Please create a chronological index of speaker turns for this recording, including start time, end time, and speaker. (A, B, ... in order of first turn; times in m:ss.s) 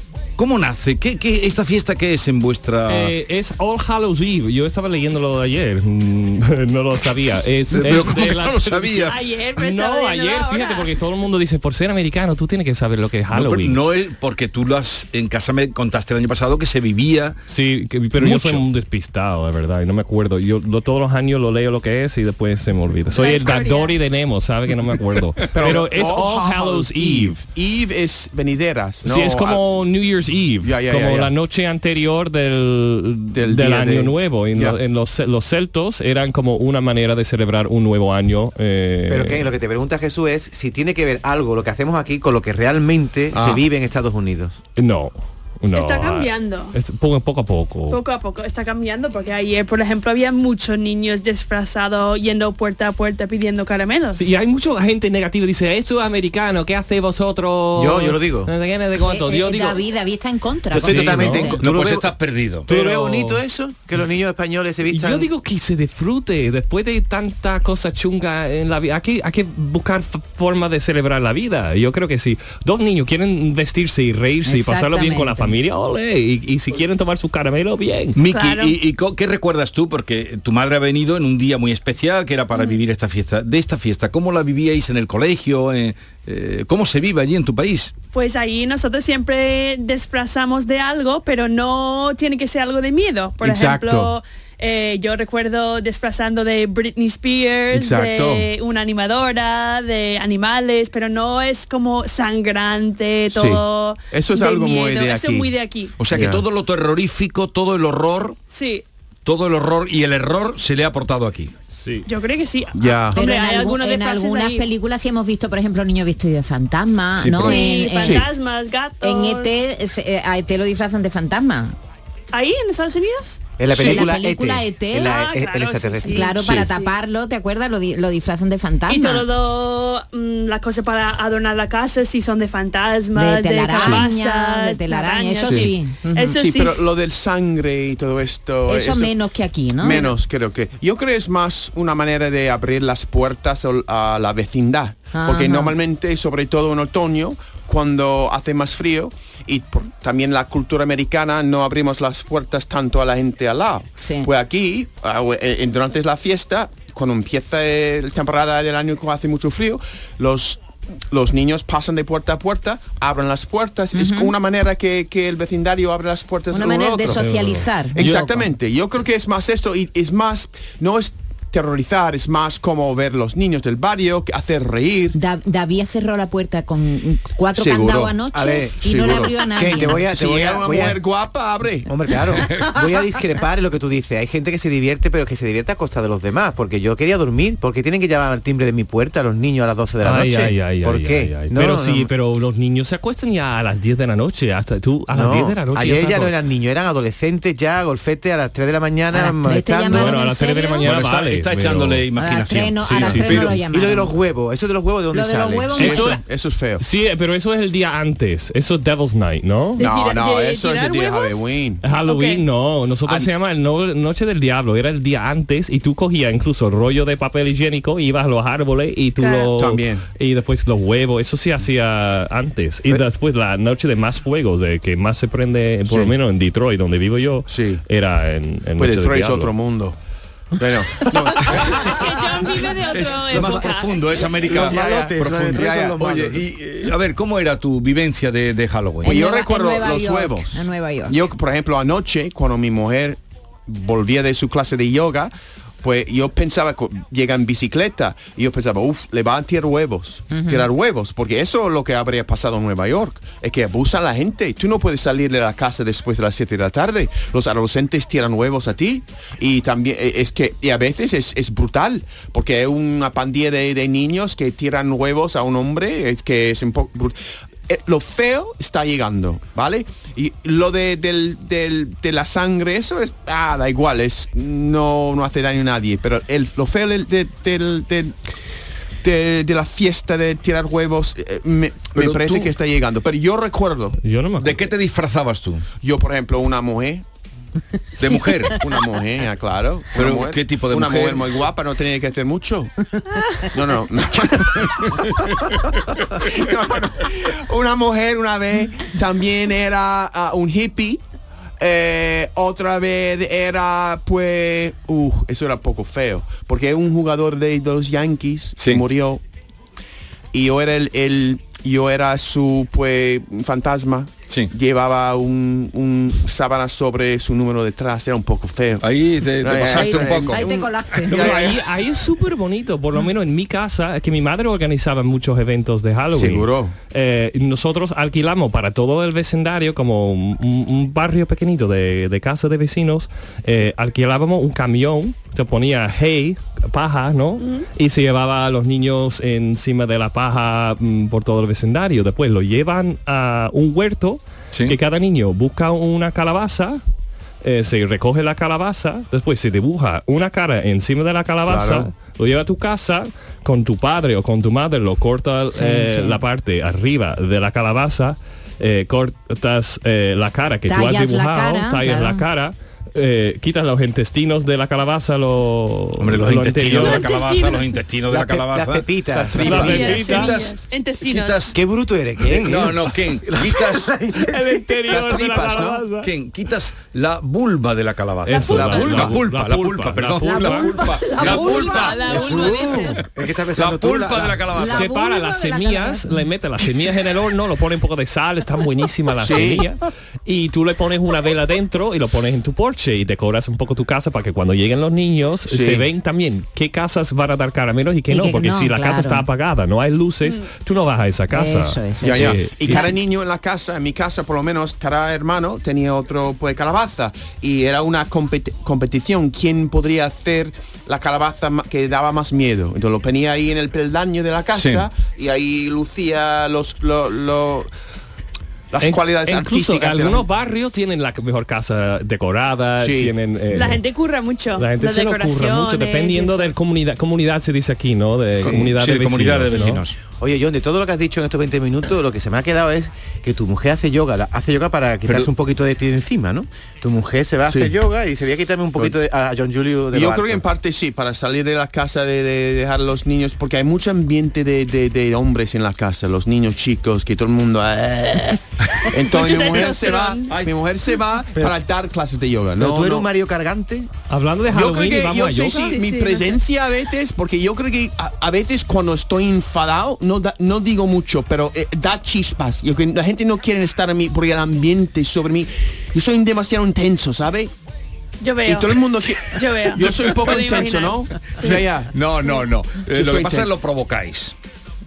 0:00.4-0:03.1 A
0:02.9-0:13.8 B
0:07.7-0:09.1 A
0:09.1-0:10.8 C
0:13.3-0:17.4 A
0:17.5-0:27.4 B
0:18.2-0:18.6 A
0:23.2-0:23.9 C
0:25.5-0:29.6 D
0:29.0-0:39.5 B
0:30.6-0:31.3 D
0:33.3-0:34.8 D
0:39.1-0:44.6 E
0:43.3-0:43.6 D
0:44.8-0:48.0 B
0:45.7-0:46.7 C
0:47.9-0:54.3 C
0:54.1-0:59.8 B
0:57.7-0:58.5 E
0:59.0-1:01.6 F
1:00.7-1:05.3 E
1:00.7-1:01.5 B
1:00.8-1:02.7 A
1:02.7-1:03.4 B
1:04.8-1:18.2 B
1:14.4-1:15.6 F
1:18.2-1:27.9 A
1:18.3-1:18.7 C
1:28.1-1:46.1 C
1:33.4-1:34.1 D
1:37.7-1:38.5 D
1:43.3-1:45.5 D
1:46.0-1:48.4 A
1:46.1-1:46.4 D
1:48.5-1:48.8 C
1:49.2-1:51.5 A
1:51.7-1:52.1 B
1:52.0-1:54.7 C
1:52.8-1:53.2 D
1:53.1-1:58.2 F
1:57.2-1:57.5 A
1:57.3-1:58.2 D
1:57.4-1:59.6 C
1:59.0-2:01.7 F
2:02.3-2:03.6 C
2:03.6-2:06.3 E
2:03.7-2:05.2 F
2:05.0-2:06.9 C
2:06.0-2:09.2 F
2:06.4-2:06.6 D
2:08.9-2:16.8 C
2:13.1-2:16.3 F
2:16.3-2:19.1 D
2:18.7-2:20.0 F
2:19.8-2:40.6 D
2:25.1-2:25.7 F
2:34.0-2:34.3 F
2:41.1-2:47.2 D
2:43.9-2:44.3 F
2:46.5-2:48.4 F
2:47.1-2:48.1 B
2:47.9-2:55.2 D
2:55.1-3:00.0 F
2:57.5-2:58.2 D
2:58.3-3:01.0 E
2:58.8-3:01.9 D
3:01.8-3:12.1 E
3:10.0-3:16.3 B
3:15.1-3:20.2 E
3:19.1-3:20.9 F
3:19.8-3:22.0 B
3:20.8-3:23.6 A
3:22.2-3:24.1 F
3:22.8-3:23.6 B
3:23.4-3:25.8 E
3:25.1-3:26.2 F
3:25.8-3:26.2 B
3:25.8-3:26.8 D
3:26.8-3:29.8 B
3:29.8-3:32.4 C
3:29.8-3:31.8 D
3:31.8-3:49.5 B
3:39.2-3:39.4 C
3:39.5-3:40.0 D
3:47.5-3:47.8 D
3:48.8-3:49.9 D
3:50.6-3:52.0 D
3:51.7-3:54.3 C
3:52.9-3:59.1 A
3:54.4-3:56.4 E
3:54.5-3:56.0 D
3:59.0-4:01.2 F
3:59.0-4:05.3 D
4:05.8-4:27.2 D
4:10.3-4:10.6 F
4:27.7-4:38.2 D
4:39.0-4:44.0 D
4:41.9-4:42.5 A
4:44.0-4:44.6 B
4:44.4-4:45.6 A
4:45.8-4:47.0 D
4:48.0-4:48.6 A
4:48.6-4:52.7 D
4:49.9-4:51.3 A
4:53.5-4:55.0 D
4:56.2-5:01.0 D
5:01.6-5:09.2 D
5:08.6-5:08.8 A
5:10.3-5:18.8 D
5:18.8-5:20.5 A
5:19.4-5:21.6 D
5:19.8-5:21.4 F
5:21.1-5:46.8 B
5:26.1-5:26.7 D
5:37.4-5:37.6 C
5:44.5-5:44.8 A
5:47.4-6:07.0 B
5:51.5-5:51.9 D
5:55.5-5:56.2 F
6:00.6-6:02.2 F
6:06.0-6:09.0 A
6:06.8-6:07.8 C
6:08.1-6:09.6 E
6:09.1-6:10.0 D
6:09.4-6:10.3 B
6:09.5-6:11.6 C
6:10.2-6:11.5 A
6:11.5-6:14.5 E
6:12.2-6:13.9 A
6:14.2-6:16.1 B
6:14.9-6:15.9 D
6:16.0-6:22.2 A
6:18.2-6:21.6 B
6:18.5-6:19.2 D
6:20.3-6:21.7 F
6:21.2-6:23.0 C
6:22.0-6:24.6 E
6:22.1-6:22.4 B
6:23.5-6:24.9 A
6:24.6-6:42.9 B
6:24.6-6:26.1 F
6:29.2-6:29.6 D
6:35.5-6:35.8 D
6:38.1-6:39.3 F
6:41.3-6:42.9 F
6:42.0-6:57.7 D
6:54.5-6:54.9 A
6:58.7-7:00.3 D
6:58.8-7:03.8 B
7:02.8-7:03.1 D
7:03.5-7:06.5 C
7:04.6-7:09.8 B
7:08.4-7:10.0 A
7:10.1-7:20.4 E
7:17.4-7:17.7 D
7:19.9-7:33.1 D
7:29.0-7:30.3 C
7:30.3-7:30.5 A
7:32.6-7:33.9 E
7:34.1-7:35.7 B
7:34.5-7:47.5 D
7:35.6-7:36.4 C
7:48.2-7:51.6 C
7:48.4-7:51.9 D
7:51.4-7:54.3 A
7:52.9-7:53.5 D